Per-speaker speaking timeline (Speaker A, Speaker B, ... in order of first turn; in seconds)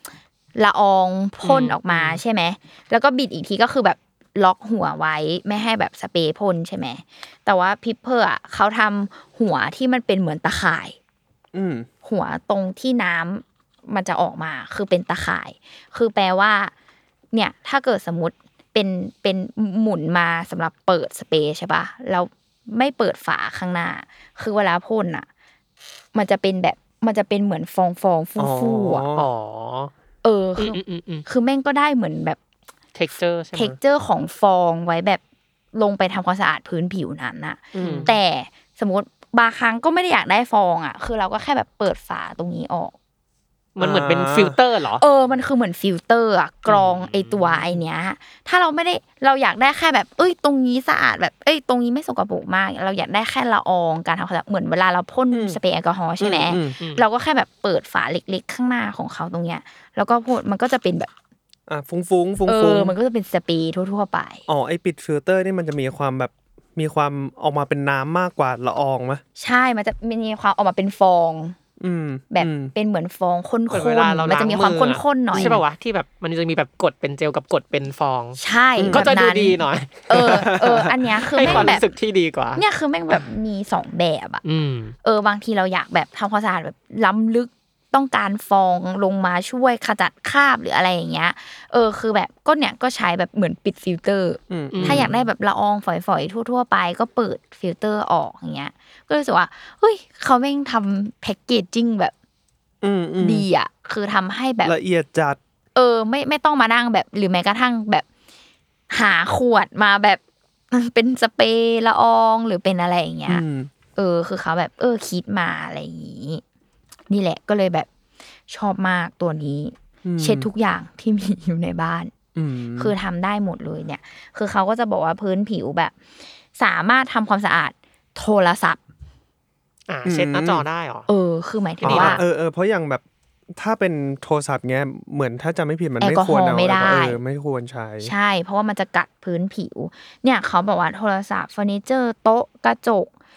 Speaker A: 0.6-11.0, 12.0-16.7, 17.3-25.3, 26.1-29.1, 30.2-32.4, 33.5-35.2, 35.7-42.9, 45.0-61.1, 62.5-64.4, 69.4-71.6, 72.3-75.6, 78.4-81.8, 82.6-84.4, 85.0-102.1, 103.2-104.7, 105.7-108.0, 108.9-110.2, 110.7-113.4, 114.0-116.4, 117.1-117.9, 118.5-122.1, 122.8-125.9, 126.5-128.8, 131.1-132.2, 136.0-137.2, 138.0-143.1
Speaker B: 1.4-2.2, 29.1-29.9, 30.6-31.2, 32.9-33.8, 37.7-38.1, 43.8-45.0, 46.7-47.6, 56.8-57.0, 73.7-78.4, 78.9-80.5, 81.3-83.2, 84.4-84.9, 94.7-95.1, 129.9-131.1, 131.8-132.2
Speaker C: 11.5-11.9, 28.4-29.3, 37.8-38.1, 43.8-44.5, 55.3-55.6, 56.2-56.8, 61.7-63.0, 64.5-69.2, 71.8-72.7, 75.3-75.6, 78.8-79.1, 80.1-81.8, 94.5-95.1, 102.8-103.5, 104.6-105.4, 113.3-113.7, 120.0-120.5, 122.3-122.9, 130.1-130.7, 131.8-133.0, 133.5-138.1